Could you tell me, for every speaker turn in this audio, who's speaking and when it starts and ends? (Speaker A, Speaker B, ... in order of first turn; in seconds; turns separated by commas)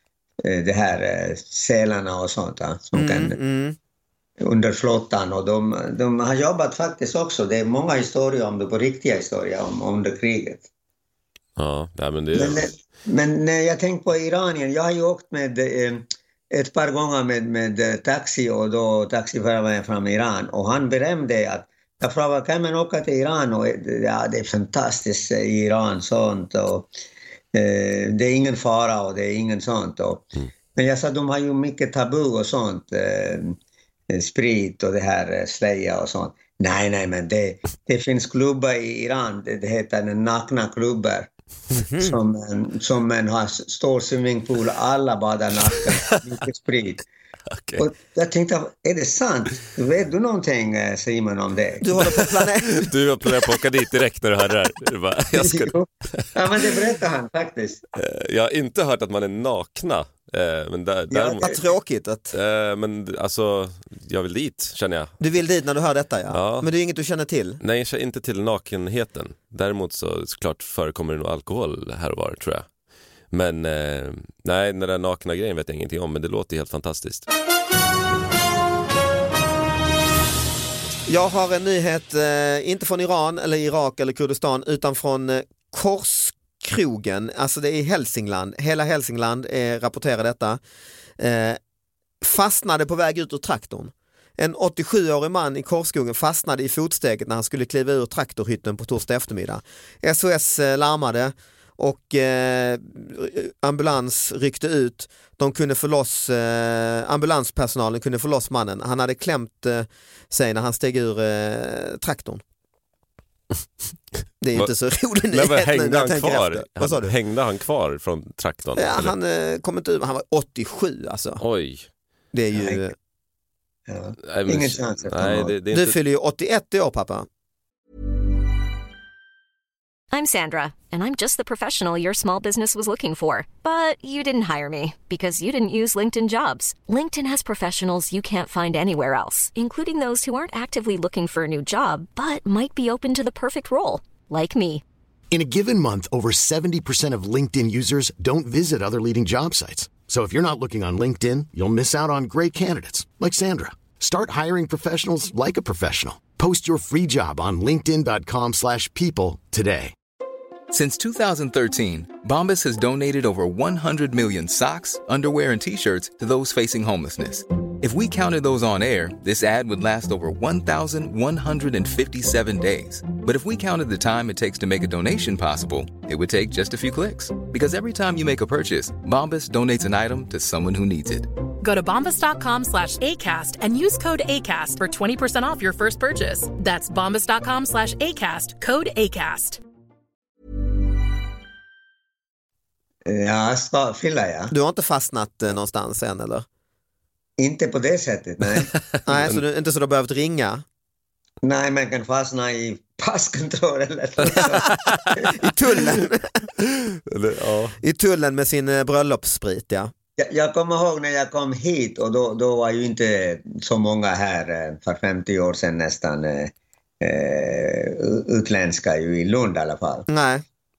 Speaker A: 0.4-3.4, Speaker B: 3.0-3.8, Speaker A: 4.4-10.7, Speaker C: 11.6-12.7, Speaker A: 12.3-26.9, Speaker A: 27.5-33.6, Speaker A: 34.1-41.3, Speaker B: 41.7-42.1, Speaker A: 42.0-47.0, Speaker C: 45.7-46.2, Speaker C: 47.5-47.9, Speaker A: 47.8-52.0, Speaker B: 51.8-52.9, Speaker C: 52.0-56.7, Speaker A: 55.4-57.8, Speaker C: 57.9-61.5, Speaker A: 61.1-61.5, Speaker B: 61.4-62.3, Speaker C: 62.3-65.1, Speaker B: 65.2-67.6, Speaker C: 66.3-66.7, Speaker C: 67.6-72.7, Speaker C: 73.3-77.3, Speaker B: 81.1-90.6, Speaker B: 91.2-91.6, Speaker B: 92.2-112.4, Speaker B: 114.4-117.1, Speaker C: 115.3-119.1, Speaker B: 118.8-121.4, Speaker C: 121.4-121.9, Speaker B: 122.3-122.9, Speaker A: 123.9-125.5, Speaker C: 124.2-126.0, Speaker B: 125.7-127.3, Speaker D: 130.1-144.8, Speaker E: 145.3-159.9, Speaker F: 160.7-181.3, Speaker G: 181.6-189.6, Speaker A: 193.1-194.5, Speaker B: 194.5-196.4, Speaker A: 197.4-198.7, Speaker B: 199.1-200.6, Speaker C: 199.1-199.4, Speaker A: 201.4-205.4, Speaker B: 205.3-206.4, Speaker C: 206.9-207.8, Speaker B: 207.8-209.9, Speaker A: 210.2-220.1, Speaker B: 220.1-220.4